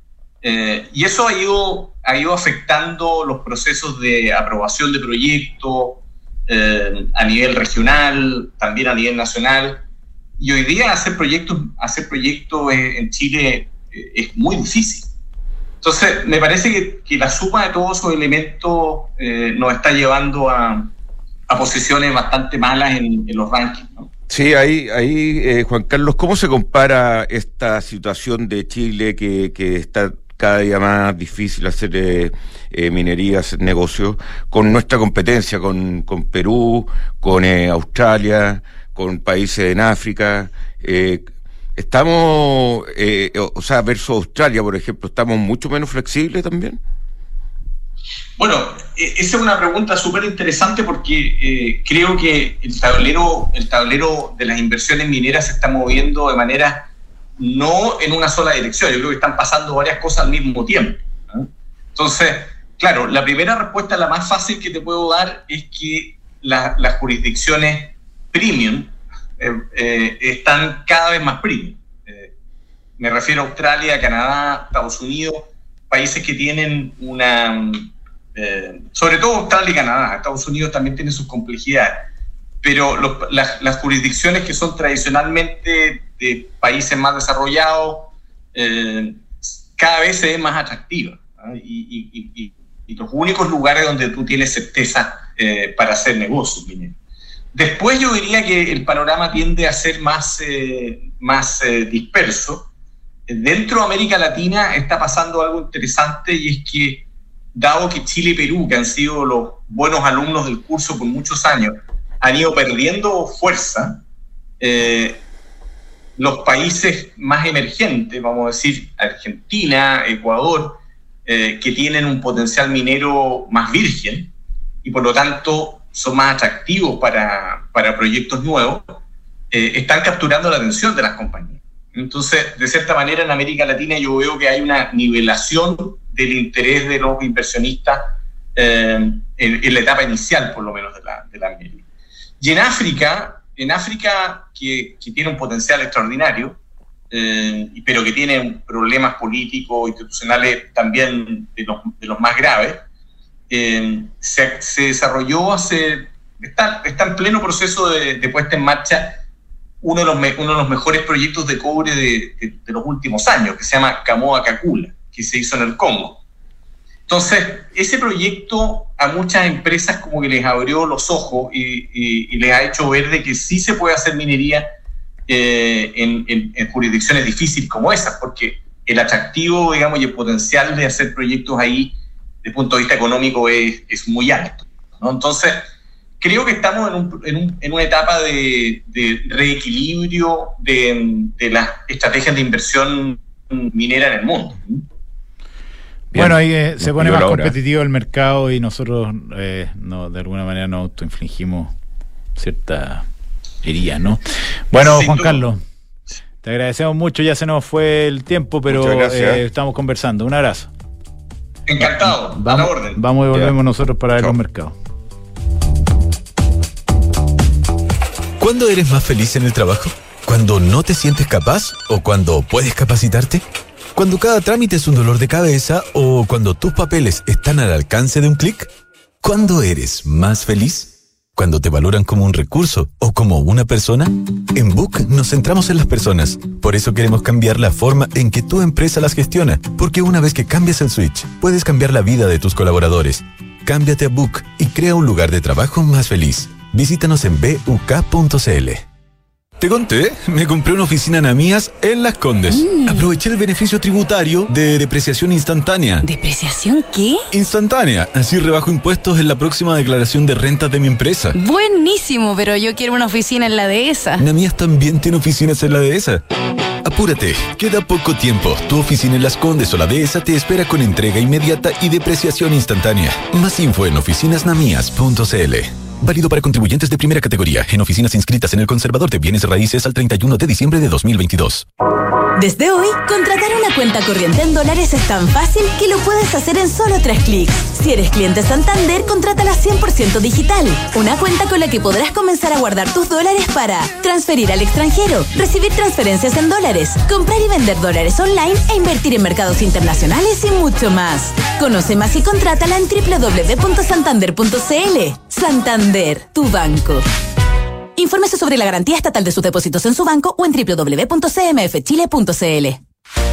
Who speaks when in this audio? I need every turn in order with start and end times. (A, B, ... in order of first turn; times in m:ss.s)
0:00.4-0:09.8 A
0:10.4-0:15.1 A
0:15.8-0:20.9 A
0:21.5-0:24.1 A
0:24.3-0:46.8 B
0:48.4-1:12.3 A
1:13.0-1:22.0 A
1:22.6-1:37.0 A
1:37.5-1:42.7 A
1:43.3-1:54.0 A
1:54.6-1:55.2 A
1:56.2-2:04.3 A
2:04.8-2:21.8 A
2:22.4-2:26.6 A
2:27.1-2:32.8 A
2:33.5-2:39.2 A
2:39.8-2:46.2 A
2:47.1-2:54.7 A
2:55.3-3:05.6 A
3:06.2-3:14.8 A
3:16.1-3:17.6 B
3:16.1-3:21.7 C
3:22.4-3:23.0 C
3:23.6-3:25.6 C
3:24.7-3:25.5 A
3:26.4-3:30.7 C
3:28.7-3:29.4 B
3:31.7-3:33.0 A
3:31.8-3:34.7 C
3:38.4-3:43.4 D
3:44.0-3:48.7 D
3:49.2-4:08.8 D
4:09.6-4:16.1 D
4:12.5-4:13.1 E
4:16.0-4:17.2 E
4:17.3-4:21.4 D
4:21.3-4:24.2 E
4:24.2-4:26.2 D
4:26.8-4:41.6 D
4:42.4-5:07.0 F
5:08.0-5:12.8 F